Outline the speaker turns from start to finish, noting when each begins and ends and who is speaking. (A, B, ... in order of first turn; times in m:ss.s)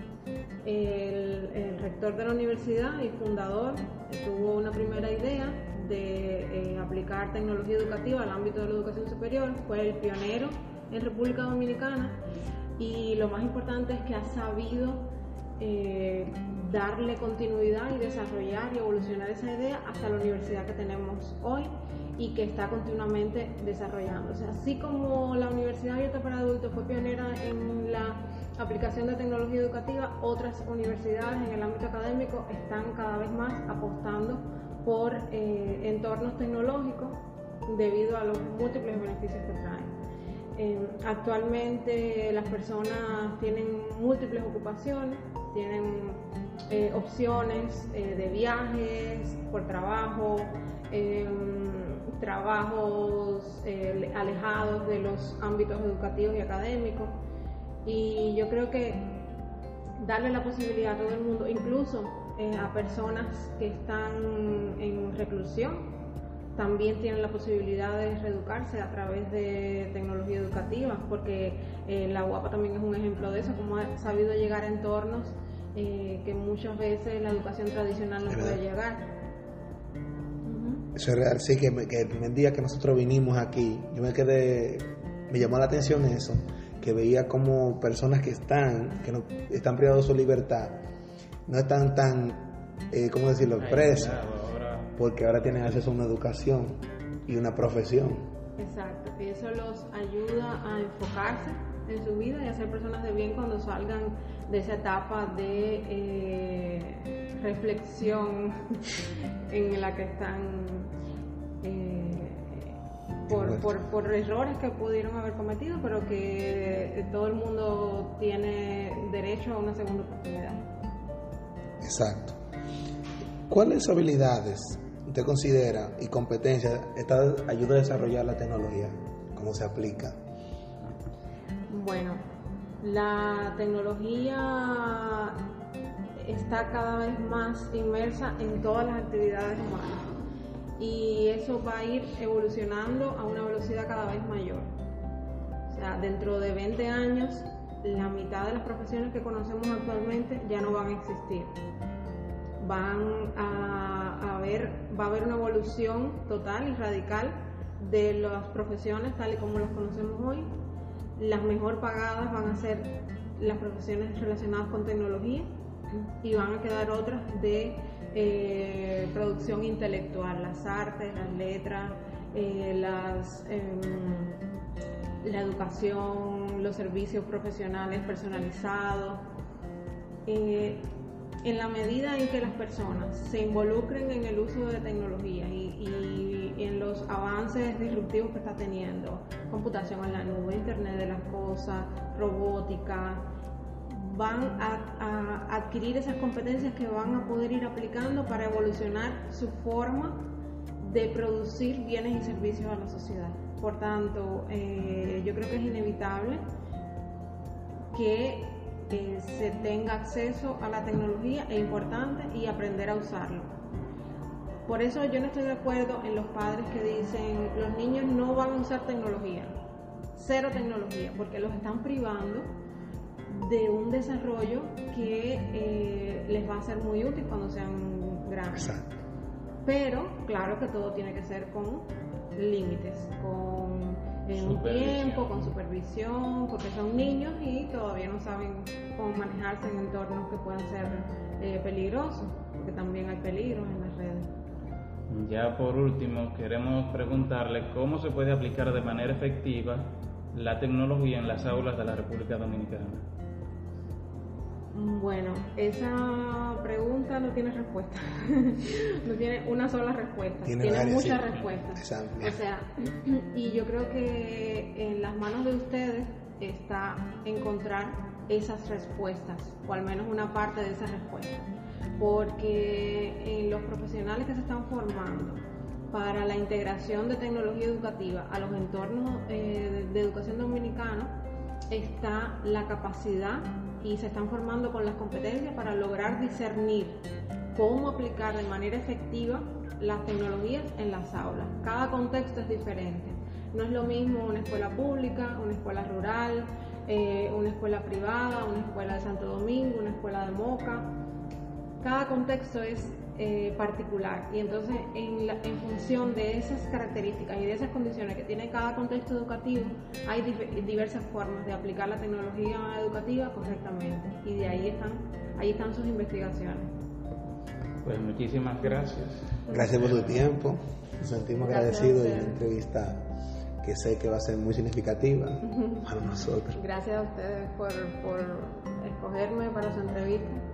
0:00.6-0:12.2 A
0:12.8-0:15.0 A
0:15.6-0:39.9 A
0:40.6-0:57.2 A
0:57.8-0:59.2 A
1:00.0-1:05.9 A
1:06.6-1:19.1 A
1:18.3-1:18.6 B
1:20.4-1:20.9 A
1:21.0-1:30.8 B
1:31.5-1:34.2 B
1:33.6-1:35.0 C
1:35.0-1:38.2 B
1:38.6-1:48.9 A
1:49.5-1:50.9 A
1:51.6-2:00.6 A
1:53.3-1:53.7 B
2:01.8-2:02.4 B
2:03.5-2:10.2 B
2:11.7-2:12.2 A
2:12.8-2:15.4 A
2:16.2-2:20.1 A
2:20.8-2:24.7 A
2:25.7-2:31.6 A
2:32.6-2:40.5 A
2:41.2-2:45.5 A
2:46.0-2:54.4 A
2:55.2-2:59.2 A
3:00.3-3:00.9 A
3:01.4-3:13.3 A
3:13.9-3:20.3 A
3:20.8-3:26.4 A
3:27.9-3:33.5 A
3:34.7-3:39.5 A
3:40.2-3:42.5 A
3:43.3-3:48.8 A
3:48.6-3:48.9 B
3:49.6-4:04.3 A
3:54.3-3:55.5 C
4:05.1-4:13.1 C
4:14.7-4:41.1 A
4:20.4-4:22.4 B
4:41.7-4:47.0 A
4:47.6-5:00.9 A
5:01.8-5:16.7 A
5:17.8-5:20.3 C
5:19.5-5:23.1 B
5:21.4-5:22.4 A
5:23.6-5:26.6 B
5:25.5-5:25.9 A
5:26.5-5:30.4 A